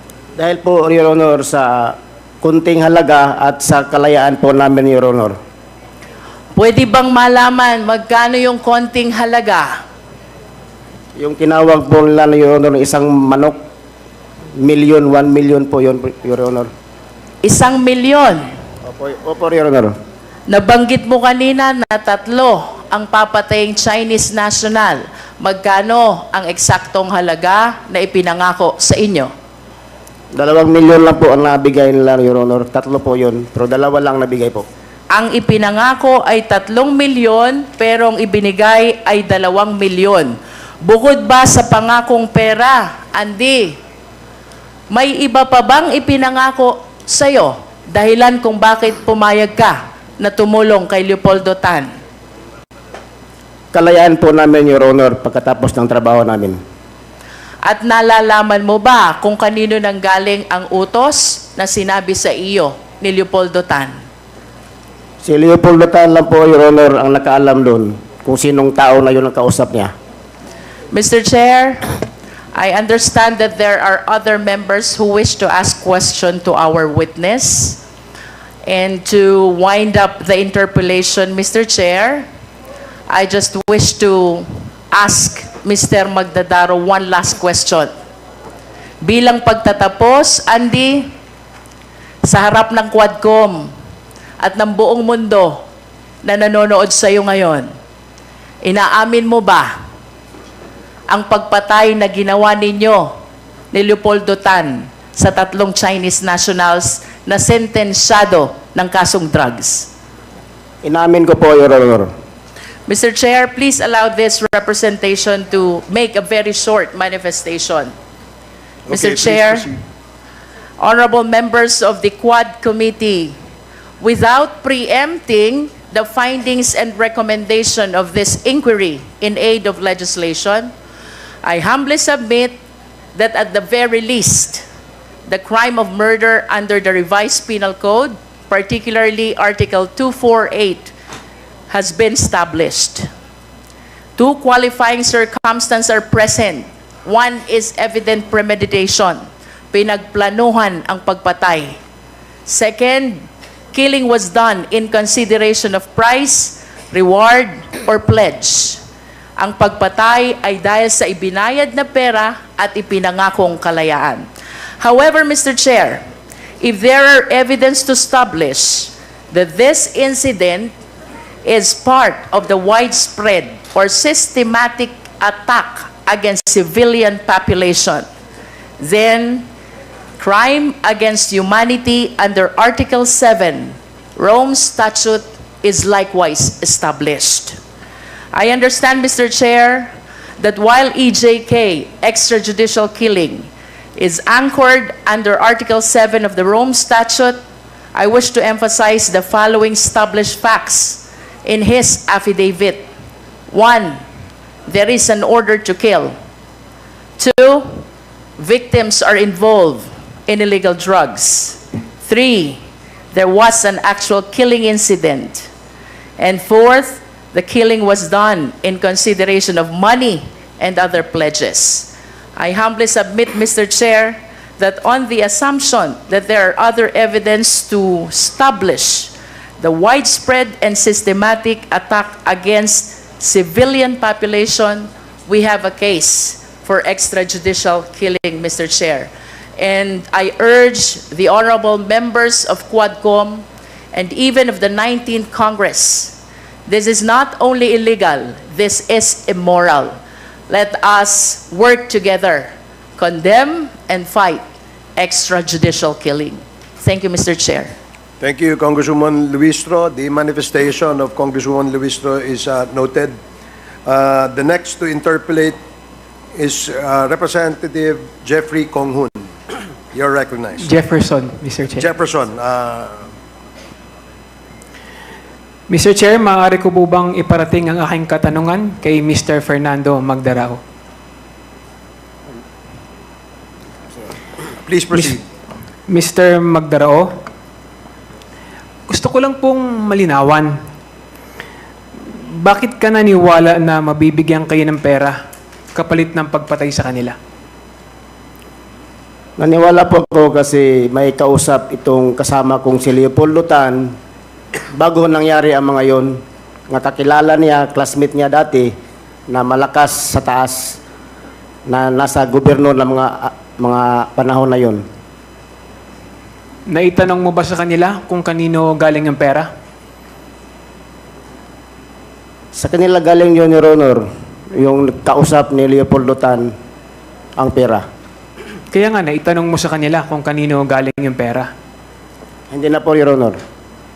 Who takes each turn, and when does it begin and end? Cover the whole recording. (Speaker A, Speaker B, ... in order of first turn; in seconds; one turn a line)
Speaker A: 0.4-5.3
Speaker B: 6.5-9.8
Speaker A: 11.2-13.6
Speaker A: 14.6-16.7
Speaker B: 17.4-18.4
Speaker A: 18.8-19.9
Speaker B: 20.5-29.3
Speaker A: 30.3-34.6
Speaker B: 35.1-43.8
Speaker B: 44.9-51.9
Speaker A: 53.7-56.6
Speaker B: 57.6-63.9
Speaker A: 65.2-69.9
Speaker B: 70.9-72.0
Speaker B: 72.5-77.8
Speaker B: 78.7-82.2
Speaker B: 83.1-87.9
Speaker B: 89.0-91.1
Speaker B: 92.2-93.7
Speaker B: 94.4-95.6
Speaker B: 96.2-97.7
Speaker B: 98.6-99.7
Speaker B: 101.1-103.1
Speaker B: 103.7-109.9
Speaker A: 110.8-112.1
Speaker B: 112.9-117.9
Speaker C: 118.9-119.7
Speaker B: 118.9-119.7
Speaker B: 120.8-123.3
Speaker B: 124.0-130.7
Speaker B: 131.4-132.5
Speaker B: 133.1-134.6
Speaker B: 135.3-140.9
Speaker B: 141.7-143.1
Speaker B: 144.2-149.2
Speaker B: 149.7-151.8
Speaker B: 152.5-158.8
Speaker B: 159.4-164.3
Speaker B: 164.8-166.0
Speaker B: 166.6-170.7
Speaker B: 171.4-178.0
Speaker B: 178.8-179.5
Speaker B: 180.2-187.6
Speaker B: 188.3-197.4
Speaker B: 197.9-202.9
Speaker B: 203.5-204.0
Speaker B: 204.7-206.1
Speaker B: 207.2-207.8
Speaker B: 208.4-212.6
Speaker B: 213.1-215.5
Speaker B: 216.2-249.9
Speaker B: 250.5-254.4
Speaker B: 255.0-257.7
Speaker C: 258.2-263.2
Speaker C: 263.9-265.6
Speaker C: 266.3-269.3
Speaker C: 269.9-270.7
Speaker D: 270.6-271.9
Speaker C: 271.8-273.0
Speaker D: 275.7-280.6
Speaker C: 284.6-285.2
Speaker D: 284.9-285.2
Speaker D: 285.9-287.2
Speaker D: 288.9-290.6
Speaker D: 292.1-295.2
Speaker D: 295.7-297.2
Speaker A: 299.4-303.9
Speaker A: 304.7-308.7
Speaker A: 309.3-310.8
Speaker A: 311.7-314.8
Speaker D: 316.7-319.5
Speaker A: 322.5-326.5
Speaker A: 327.4-327.8
Speaker D: 328.7-331.5
Speaker A: 332.5-333.4